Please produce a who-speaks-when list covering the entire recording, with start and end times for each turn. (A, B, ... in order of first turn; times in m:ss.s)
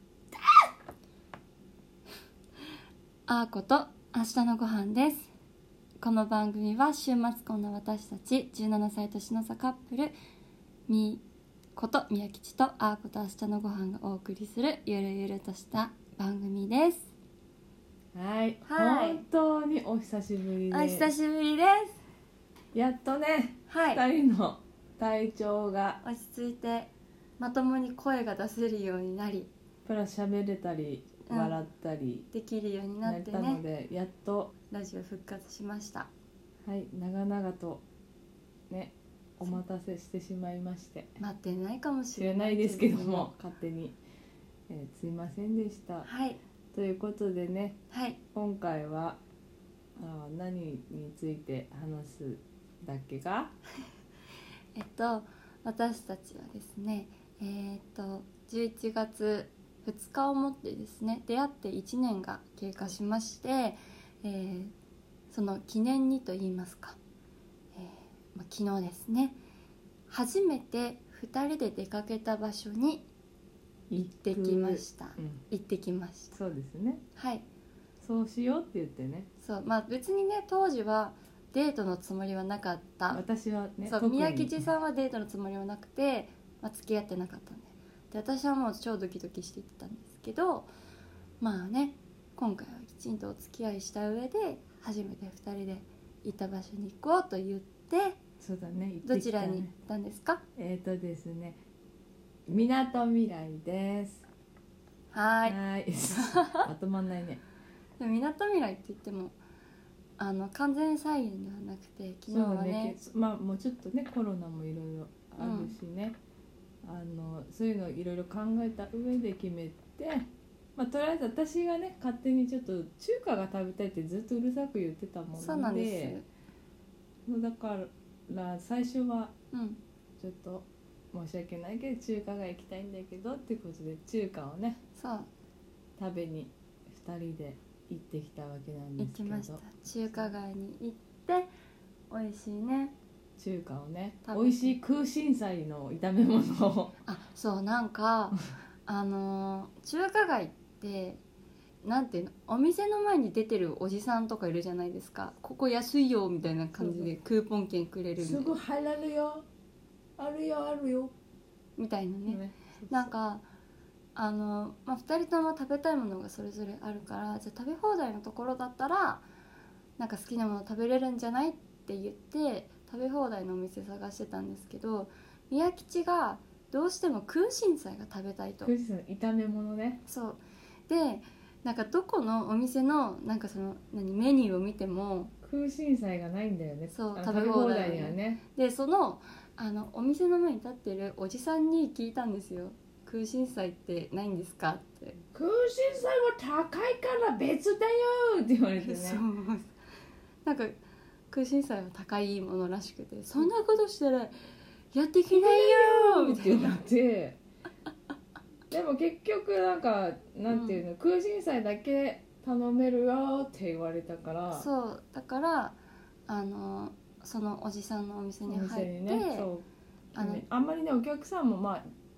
0:03.3-0:05.3 A
0:06.0-0:10.2 A
0:10.9-0:11.2 A
0:11.8-0:17.1 A
0:18.1-0:21.1 B
0:18.6-0:19.2 A
0:20.7-0:22.0 A
0:22.7-0:26.0 B
0:23.7-0:24.0 A
0:26.0-0:29.5 A
0:29.8-0:32.3 B
0:31.3-0:31.6 A
0:32.3-0:33.6 A
0:33.0-0:34.5 B
0:34.7-0:36.1 A
0:36.6-0:37.8 B
0:38.7-0:41.2 B
0:41.2-0:43.4 A
0:42.1-0:44.0 B
0:44.7-0:46.1 B
0:46.0-0:46.4 A
0:46.7-0:47.8 B
0:47.9-0:48.2 A
0:48.3-0:49.2 B
0:50.0-0:53.6 B
0:54.8-1:04.7 A
1:05.3-1:07.0 A
1:07.7-1:09.4 A
1:10.1-1:13.1 A
1:13.9-1:15.4 B
1:14.2-1:16.4 A
1:16.3-1:17.0 B
1:17.2-1:17.4 A
1:18.0-1:19.3 B
1:19.4-1:23.2 A
1:23.1-1:24.6 B
1:23.8-1:30.7 A
1:31.4-1:38.2 A
1:38.4-1:39.7 B
1:39.0-1:40.4 A
1:40.6-1:41.6 B
1:42.5-1:44.3 B
1:45.1-1:45.6 A
1:45.4-1:47.4 B
1:46.2-1:46.6 A
1:48.0-1:49.4 A
1:50.2-1:53.0 A
1:52.3-1:56.2 B
1:55.4-1:55.8 A
1:56.8-2:06.2 B
2:05.4-2:06.2 A
2:07.3-2:09.3 B
2:09.5-2:09.8 A
2:10.2-2:14.8 B
2:15.0-2:15.3 A
2:16.0-2:19.6 B
2:19.0-2:21.5 A
2:22.1-2:22.9 A
2:23.4-2:27.0 B
2:24.2-2:24.8 A
2:27.1-2:31.2 A
2:31.8-2:38.6 A
2:36.8-2:37.1 B
2:38.2-2:39.4 B
2:40.2-2:41.1 B
2:41.8-2:43.4 A
2:42.3-2:43.1 B
2:44.2-2:49.2 A
2:50.0-2:58.7 A
2:58.6-3:00.0 B
3:00.1-3:05.3 A
3:05.4-3:08.4 B
3:06.9-3:15.2 A
3:15.3-3:19.2 B
3:18.8-3:19.7 A
3:20.4-3:20.8 A
3:21.3-3:26.8 A
3:25.3-3:27.4 B
3:28.7-3:34.7 B
3:30.5-3:30.8 A
3:34.5-3:35.8 A
3:36.3-3:39.5 A
3:38.5-3:41.8 B
3:40.2-3:40.4 A